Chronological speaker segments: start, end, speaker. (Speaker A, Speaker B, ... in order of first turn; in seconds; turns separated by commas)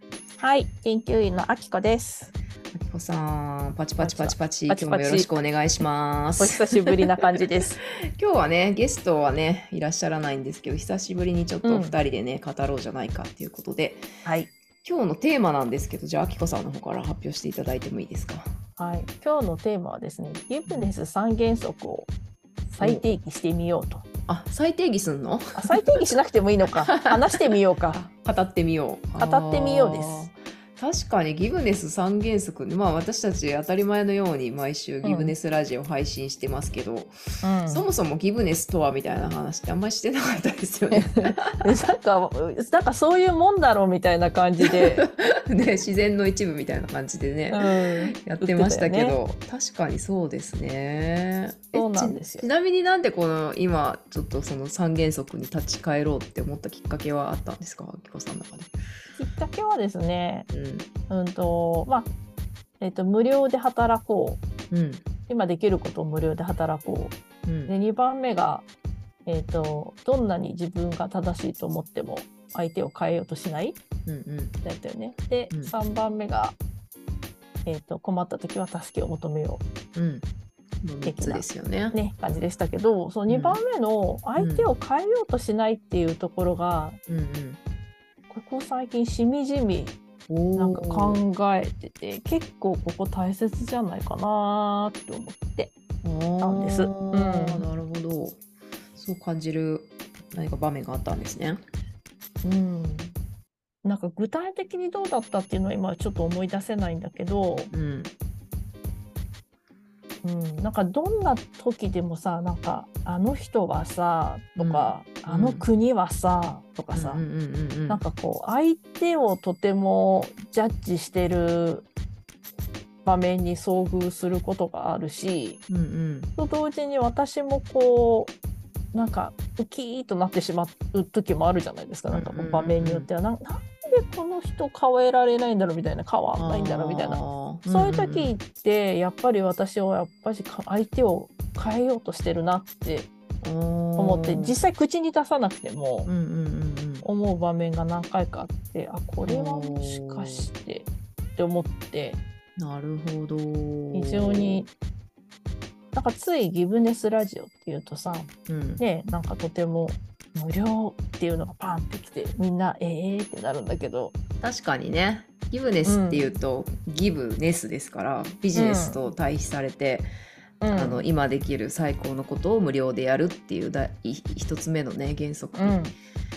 Speaker A: 0.4-2.3, Speaker B: 2.7-7.0, Speaker A: 4.0-5.3, Speaker A: 6.4-7.8, Speaker B: 8.2-14.1, Speaker A: 11.6-12.0, Speaker A: 14.2-14.5, Speaker B: 14.8-18.6, Speaker A: 18.8-22.1, Speaker B: 20.7-20.9, Speaker A: 22.7-24.1, Speaker B: 24.3-26.2, Speaker A: 25.6-28.0, Speaker B: 26.9-41.7, Speaker A: 29.2-30.2, Speaker A: 35.0-35.3, Speaker A: 37.4-37.9, Speaker A: 40.9-45.0, Speaker B: 44.6-58.7, Speaker A: 47.5-49.2, Speaker A: 51.7-52.5, Speaker A: 59.2-60.5, Speaker B: 60.5-60.9, Speaker A: 61.1-62.1, Speaker A: 62.8-64.4, Speaker B: 64.7-65.1, Speaker A: 65.3-68.7, Speaker B: 67.5-67.7, Speaker A: 69.3-73.8, Speaker B: 74.1-74.6, Speaker A: 74.6-76.6, Speaker A: 77.7-79.6, Speaker B: 80.0-80.3, Speaker B: 80.8-82.0, Speaker A: 81.0-87.0, Speaker B: 83.3-83.6, Speaker B: 84.4-84.7, Speaker B: 87.1-87.6, Speaker A: 88.3-90.0, Speaker B: 90.3-91.2, Speaker A: 90.6-95.7, Speaker B: 96.0-98.4, Speaker A: 96.4-97.7, Speaker B: 99.0-101.6, Speaker A: 102.4-103.2, Speaker A: 103.8-107.7, Speaker B: 107.7-108.1, Speaker A: 110.2-117.2, Speaker B: 114.6-115.7, Speaker B: 116.9-118.0, Speaker A: 117.9-121.9, Speaker A: 123.0-125.6, Speaker B: 125.7-126.3, Speaker A: 126.4-128.3, Speaker A: 128.9-143.1, Speaker B: 132.1-133.1, Speaker B: 136.4-138.4, Speaker B: 143.4-144.6, Speaker A: 144.0-146.1, Speaker B: 146.1-147.1, Speaker A: 147.0-152.2, Speaker B: 149.2-150.5, Speaker B: 152.6-154.7, Speaker A: 153.9-154.7, Speaker A: 155.9-164.2, Speaker B: 158.5-158.8, Speaker B: 164.4-170.1, Speaker A: 165.8-166.3, Speaker A: 168.5-169.0, Speaker A: 170.6-171.1, Speaker B: 170.7-175.8, Speaker A: 175.6-175.9